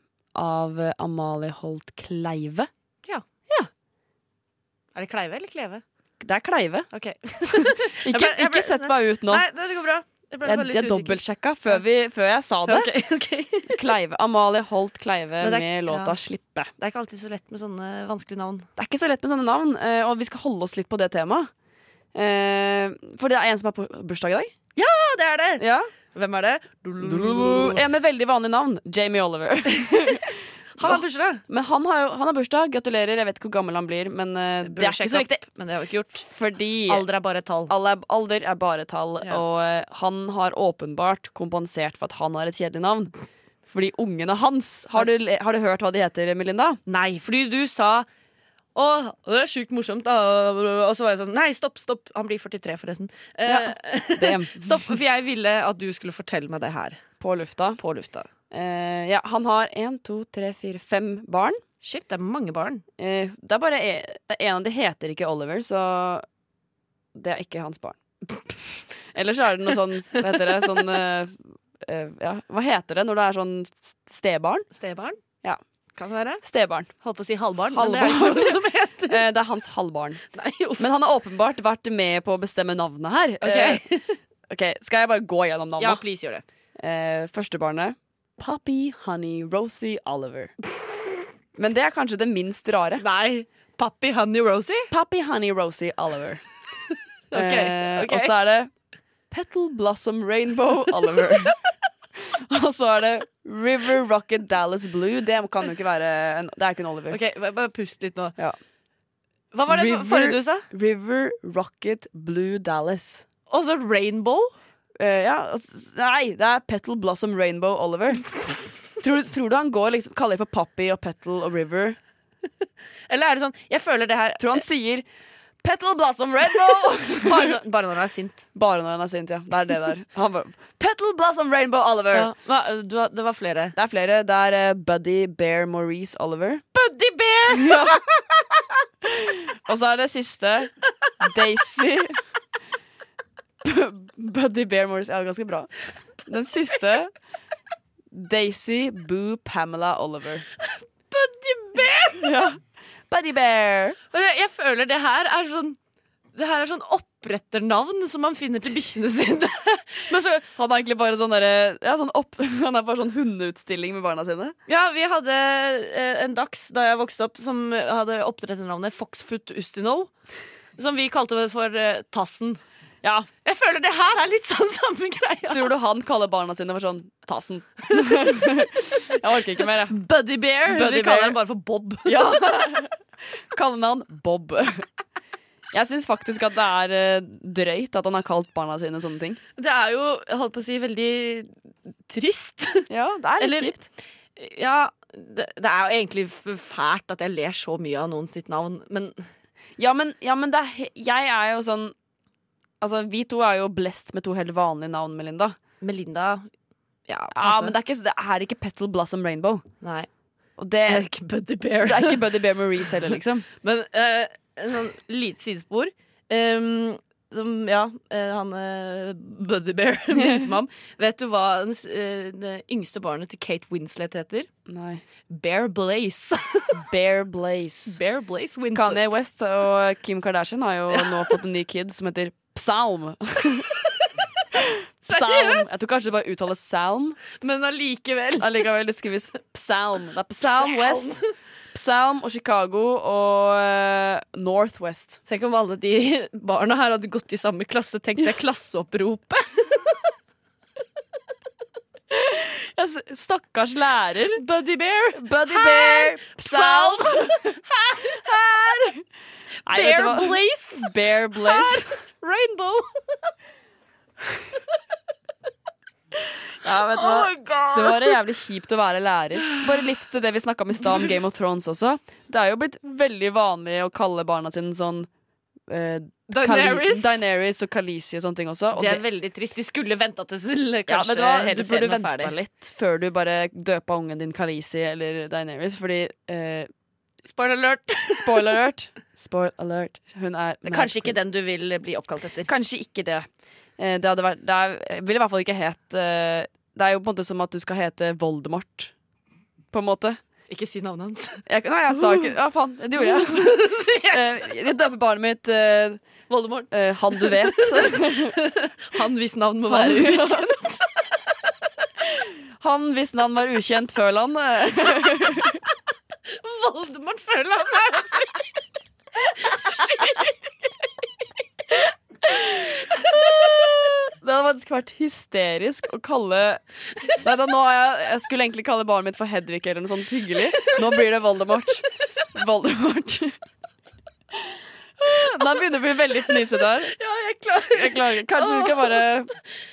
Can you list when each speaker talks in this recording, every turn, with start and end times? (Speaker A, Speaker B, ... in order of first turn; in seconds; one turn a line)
Speaker A: 0.3-2.7
Speaker B: 4.9-5.8
Speaker A: 6.2-6.9
Speaker B: 6.9-11.8
Speaker A: 7.5-9.4
Speaker A: 10.4-12.9
Speaker B: 12.7-13.8
Speaker A: 13.7-16.7
Speaker B: 15.4-16.2
Speaker B: 16.8-18.7
Speaker A: 18.8-21.5
Speaker A: 22.1-24.5
Speaker B: 24.8-27.8
Speaker A: 25.6-25.9
Speaker A: 27.0-35.4
Speaker B: 30.8-31.4
Speaker B: 34.6-36.2
Speaker A: 36.2-37.0
Speaker B: 36.9-37.7
Speaker A: 37.7-43.1
Speaker A: 43.7-46.8
Speaker B: 46.9-48.1
Speaker B: 48.7-57.0
Speaker A: 53.5-54.7
Speaker A: 57.2-57.8
Speaker B: 57.8-58.3
Speaker A: 58.5-61.6
Speaker B: 61.8-62.8
Speaker A: 63.0-66.2
Speaker A: 67.1-74.7
Speaker B: 74.7-75.2
Speaker B: 75.9-76.4
Speaker A: 76.4-76.9
Speaker B: 77.0-79.2
Speaker A: 77.7-80.2
Speaker B: 80.3-80.9
Speaker A: 80.8-83.8
Speaker B: 83.4-84.2
Speaker A: 84.5-86.0
Speaker B: 85.8-86.4
Speaker A: 86.8-90.5
Speaker A: 91.5-93.0
Speaker B: 93.0-94.9
Speaker A: 94.9-96.4
Speaker B: 97.3-98.3
Speaker A: 97.3-98.7
Speaker A: 99.3-101.6
Speaker A: 102.2-107.2
Speaker B: 107.1-108.3
Speaker B: 109.5-110.7
Speaker A: 109.7-113.2
Speaker B: 113.5-114.5
Speaker A: 115.0-122.0
Speaker B: 123.1-124.6
Speaker A: 124.4-125.0
Speaker A: 125.6-127.6
Speaker B: 127.2-128.4
Speaker A: 128.5-132.3
Speaker B: 132.1-133.7
Speaker A: 133.8-136.6
Speaker B: 136.7-138.2
Speaker A: 137.5-138.0
Speaker A: 139.0-142.2
Speaker A: 143.6-145.7
Speaker A: 146.2-147.1
Speaker A: 148.1-150.4
Speaker B: 151.1-152.3
Speaker A: 152.2-152.6
Speaker A: 153.1-154.0
Speaker B: 154.1-155.8
Speaker B: 156.3-160.4
Speaker A: 160.5-164.5
Speaker B: 164.7-170.1
Speaker B: 170.8-172.6
Speaker A: 173.0-173.3
Speaker B: 173.4-175.7
Speaker A: 175.5-180.0
Speaker B: 179.8-182.5
Speaker A: 180.6-181.4
Speaker A: 182.0-183.0
Speaker A: 183.5-184.8
Speaker A: 185.7-189.4
Speaker B: 189.6-191.5
Speaker B: 192.1-193.8
Speaker A: 192.9-193.9
Speaker B: 194.3-199.2
Speaker A: 199.8-201.9
Speaker A: 202.8-205.6
Speaker B: 205.8-206.5
Speaker B: 207.1-207.7
Speaker A: 207.3-209.6
Speaker B: 209.8-210.1
Speaker A: 210.6-211.1
Speaker B: 210.8-212.4
Speaker A: 211.8-213.4
Speaker B: 213.6-224.5
Speaker A: 220.1-220.5
Speaker A: 224.7-225.0
Speaker B: 225.3-226.9
Speaker A: 226.8-228.0
Speaker B: 227.9-229.1
Speaker A: 228.7-233.8
Speaker B: 230.9-231.3
Speaker A: 234.5-237.2
Speaker B: 235.1-235.7
Speaker B: 237.4-238.7
Speaker A: 238.4-241.2
Speaker B: 240.4-241.2
Speaker A: 241.7-245.2
Speaker B: 245.2-250.1
Speaker A: 252.1-254.4
Speaker B: 254.3-258.9
Speaker A: 255.1-257.6
Speaker A: 258.3-259.0
Speaker B: 259.6-263.0
Speaker A: 259.6-262.0
Speaker A: 266.6-275.1
Speaker B: 266.9-268.2
Speaker A: 275.7-279.0
Speaker B: 276.3-277.2
Speaker B: 278.7-282.4
Speaker A: 280.9-286.7
Speaker B: 287.2-288.6
Speaker A: 288.1-291.2
Speaker B: 290.6-292.5
Speaker A: 292.4-293.2
Speaker A: 293.8-298.9
Speaker A: 299.7-300.2
Speaker B: 300.5-302.3
Speaker A: 301.4-306.0
Speaker B: 303.0-304.4
Speaker B: 306.3-311.5
Speaker A: 306.7-308.4
Speaker A: 309.7-310.5
Speaker A: 312.6-315.6
Speaker B: 316.3-318.4
Speaker B: 319.1-320.7
Speaker B: 322.8-324.0
Speaker A: 324.2-326.6
Speaker A: 327.2-333.3
Speaker A: 335.0-336.9
Speaker B: 335.0-335.6
Speaker B: 336.3-339.0
Speaker A: 337.7-339.3